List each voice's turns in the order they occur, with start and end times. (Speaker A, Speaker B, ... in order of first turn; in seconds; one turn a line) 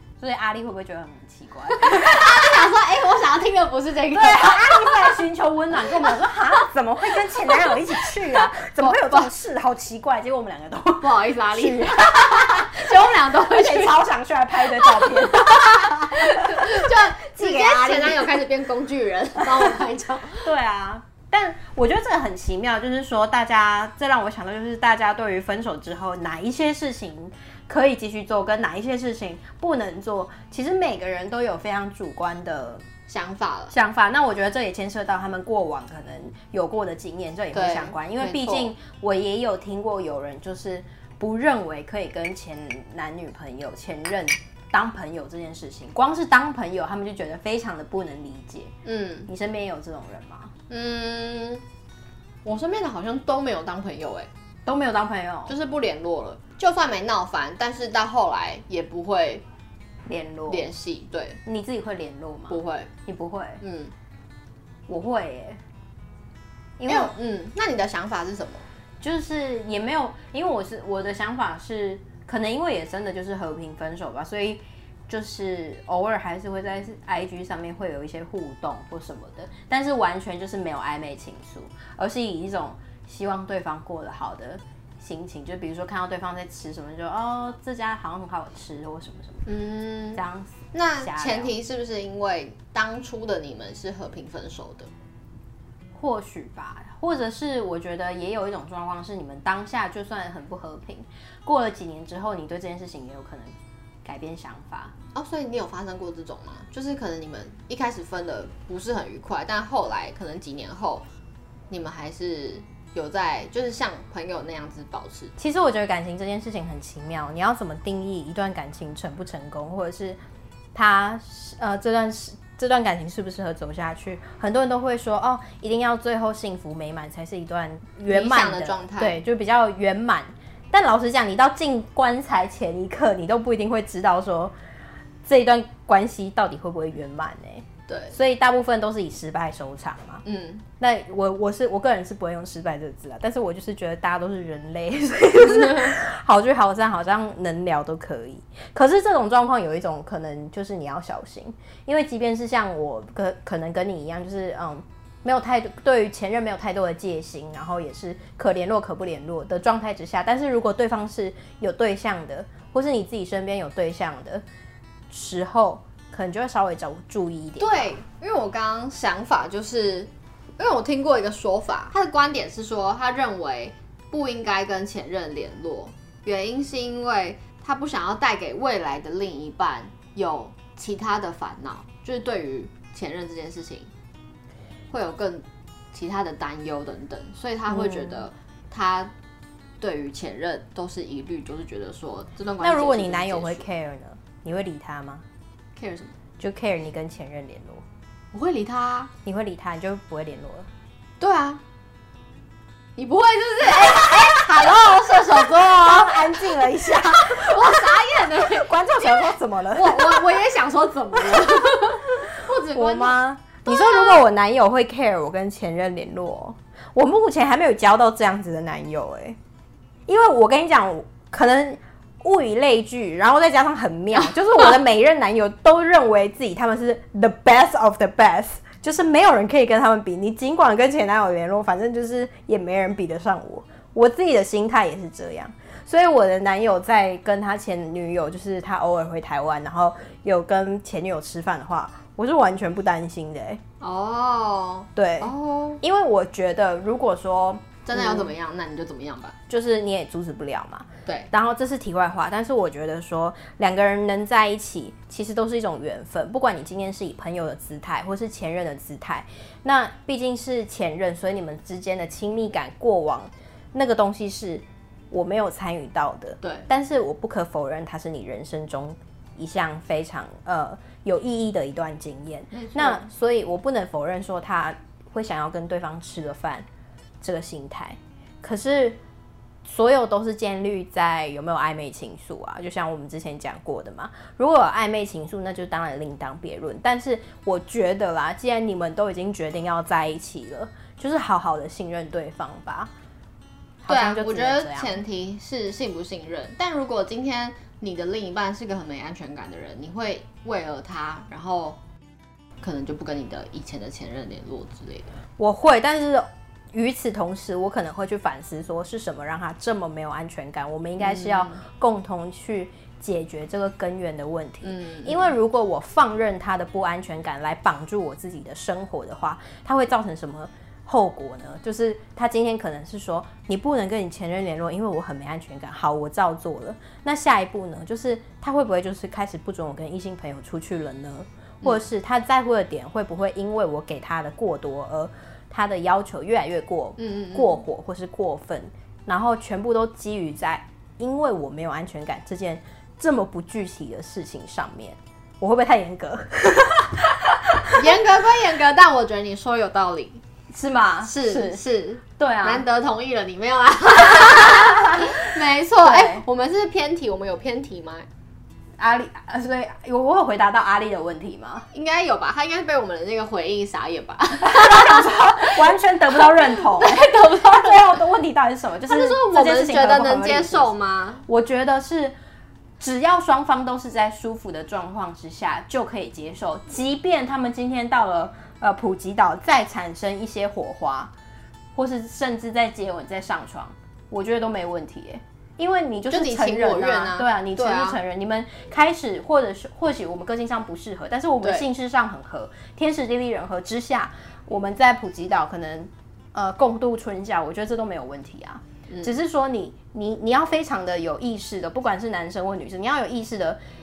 Speaker A: 0.2-2.1
Speaker B: 1.8-5.2
Speaker A: 4.1-18.4
Speaker B: 8.4-9.3
Speaker B: 11.0-14.0
Speaker B: 14.6-20.5
Speaker A: 20.4-32.8
Speaker B: 33.1-33.7
Speaker A: 33.7-48.7
Speaker B: 37.5-38.7
Speaker B: 48.8-49.3
Speaker A: 49.3-50.5
Speaker B: 50.7-51.6
Speaker B: 52.4-54.3
Speaker A: 54.6-55.5
Speaker B: 55.5-59.4
Speaker A: 60.0-60.7
Speaker B: 60.5-61.4
Speaker A: 61.4-63.6
Speaker B: 62.5-62.9
Speaker B: 63.6-63.9
Speaker A: 64.9-65.6
Speaker A: 66.8-67.1
Speaker B: 66.8-68.6
Speaker A: 69.0-89.5
Speaker B: 89.5-94.9
Speaker A: 90.2-91.5
Speaker A: 95.9-103.5
Speaker A: 104.0-104.9
Speaker B: 105.1-111.0
Speaker B: 111.7-115.3
Speaker A: 115.4-120.2
Speaker A: 120.7-134.5
Speaker B: 128.1-129.2
Speaker A: 135.2-140.2
Speaker B: 137.9-138.2
Speaker B: 140.2-140.6
Speaker A: 140.8-164.4
Speaker B: 145.4-146.0
Speaker A: 165.1-167.9
Speaker B: 167.6-183.9
Speaker B: 184.9-189.1
Speaker A: 187.7-188.3
Speaker B: 189.8-193.7
Speaker A: 192.6-195.2
Speaker B: 195.8-196.2
Speaker A: 196.4-197.8
Speaker B: 198.3-199.1
Speaker A: 199.2-200.7
Speaker B: 201.2-201.6
Speaker B: 203.0-214.2
Speaker A: 204.1-210.3
Speaker A: 212.7-219.4
Speaker A: 220.1-243.6
Speaker B: 224.1-224.8
Speaker B: 243.8-245.8
Speaker A: 244.9-248.3
Speaker B: 247.8-249.3
Speaker A: 249.5-276.6
Speaker B: 251.0-251.3
Speaker B: 266.4-266.7
Speaker B: 272.5-273.1
Speaker A: 277.2-279.0
Speaker A: 279.6-292.9
Speaker A: 293.8-295.0
Speaker B: 293.9-301.8
Speaker B: 302.6-305.1
Speaker A: 305.4-347.9
Speaker B: 311.0-311.6
Speaker B: 314.6-315.3
Speaker B: 337.0-337.6
Speaker B: 347.7-350.2
Speaker A: 350.5-351.6
Speaker B: 351.0-358.1
Speaker A: 352.2-352.6
Speaker A: 354.6-355.2
Speaker A: 355.8-356.2
Speaker A: 358.8-361.7
Speaker B: 361.7-365.6
Speaker A: 364.4-370.7
Speaker B: 366.1-368.0
Speaker B: 368.9-371.2
Speaker A: 371.3-372.1
Speaker A: 372.8-381.1
Speaker A: 381.7-403.6
Speaker B: 386.1-388.0
Speaker B: 398.9-399.1